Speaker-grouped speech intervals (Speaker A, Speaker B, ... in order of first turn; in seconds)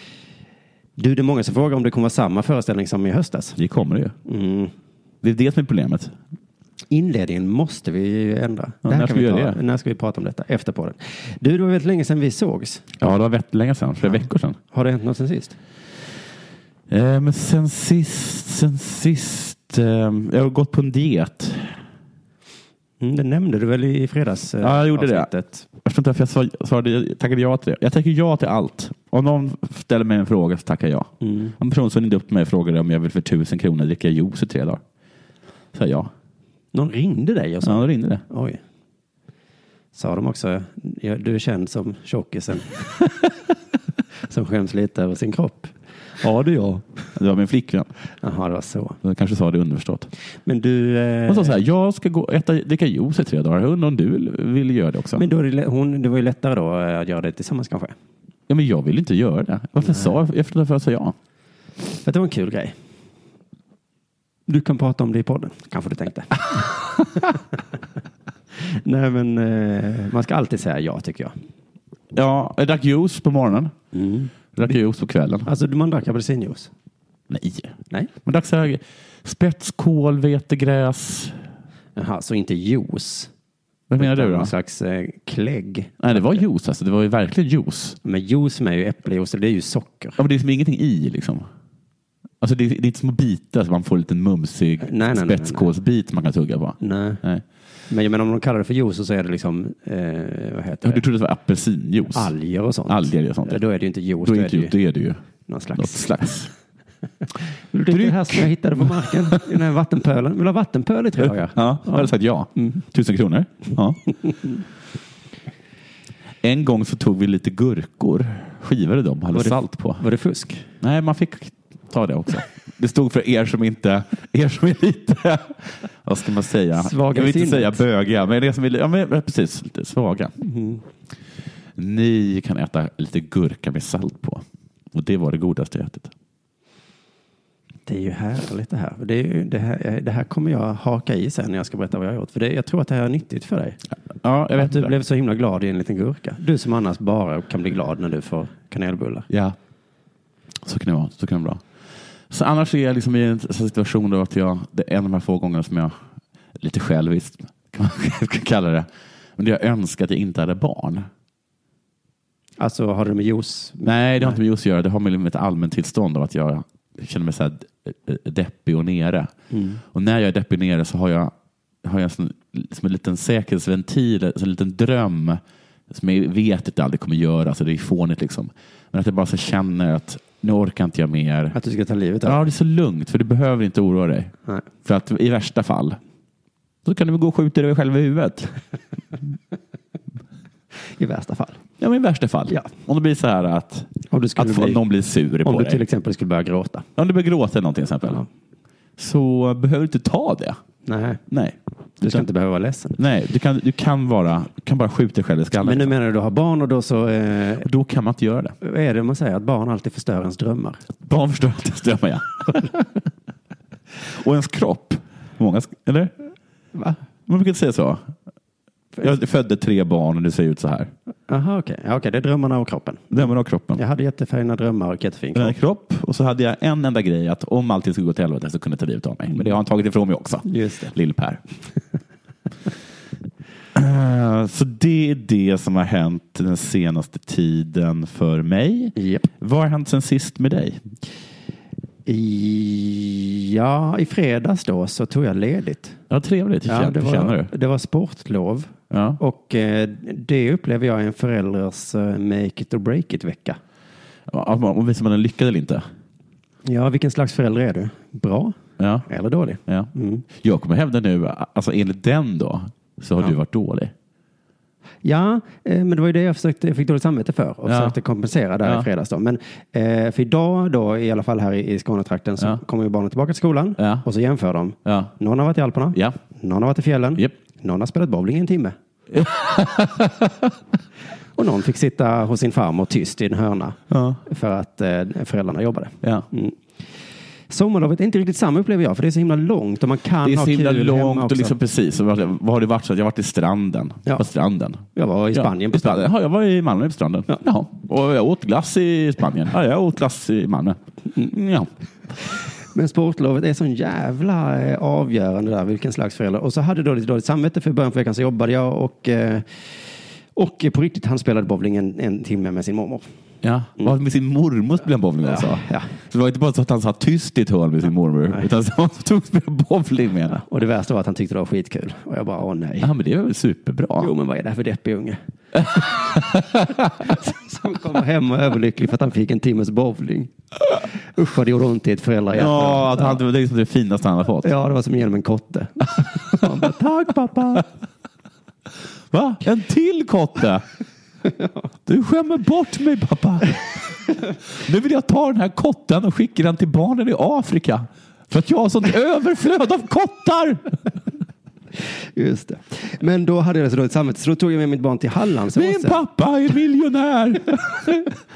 Speaker A: 1.0-3.6, 4.2-4.7, 6.9-12.8, 14.0-15.6, 23.0-25.7, 31.2-31.5, 36.7-38.6, 39.9-43.1, 44.3-46.9, 48.2-49.0, 50.5-51.6, 55.1-57.9, 59.8-60.1, 62.0-62.7, 64.5-67.4, 68.5-71.3, 73.9-74.8, 75.4-76.7, 82.0-83.3, 84.0-86.4, 88.0-90.2, 94.8-95.7, 96.8-97.2, 97.9-101.0, 102.1-104.7, 105.5-106.3, 107.7-112.8, 114.2-114.6, 119.3-120.7, 126.8-127.8, 130.4-130.8, 137.9-143.8, 144.6-149.3, 162.6-164.4, 169.5-169.8, 181.5-182.4, 191.0-191.6, 194.1-194.8, 195.4-196.8, 200.8-201.2, 202.0-203.0, 205.6-207.7, 208.6-210.8, 221.3-225.6, 230.4-230.9, 238.9-239.3, 242.1-246.0, 246.7-253.6, 256.6-260.2, 265.0-278.7, 281.4-286.6, 287.5-291.6, 294.9-296.1, 302.7-309.7, 310.3-313.0, 315.2-315.9, 320.3-322.9, 324.0-325.2, 327.0-333.2, 334.4-337.6, 352.1-356.0
Speaker B: 3.6-4.1, 5.2-6.1, 8.8-9.6, 13.0-14.6, 16.9-21.8, 24.6-25.3, 25.8-34.8, 35.7-36.1, 37.6-38.2, 47.1-47.9, 49.0-50.1, 51.3-55.3, 58.5-61.1, 72.1-73.7, 74.5-75.5, 77.3-81.4, 83.9-84.5, 86.0-88.0, 90.2-91.5, 92.4-97.4, 100.8-102.3, 102.9-103.6, 104.2-105.2, 105.7-106.5, 107.9-109.4, 111.2-114.0, 116.4-120.0, 120.8-130.3, 131.8-136.1, 144.2-144.9, 149.3-149.6, 150.6-151.6, 152.3-155.9, 156.6-161.1, 163.8-169.3, 169.9-181.6, 182.2-184.3, 184.8-186.0, 186.8-188.5, 191.8-195.8, 196.9-198.2, 199.0-200.6, 201.3-202.2, 203.0-205.9, 207.6-208.5, 211.0-212.7, 213.9-216.1, 217.3-218.1, 219.0-220.9, 223.1-223.8, 225.3-231.4, 233.7-240.8, 246.1-247.5, 248.9-249.2, 254.3-255.8, 258.8-259.1, 259.7-263.9, 267.6-267.9, 273.8-274.0, 274.8-275.1, 279.1-280.5, 283.9-284.2, 290.2-301.7, 313.4-320.4, 322.8-324.1, 325.6-327.1, 332.3-334.5, 336.6-337.6, 339.1-340.6, 341.9-343.6, 344.5-350.7, 355.5-358.1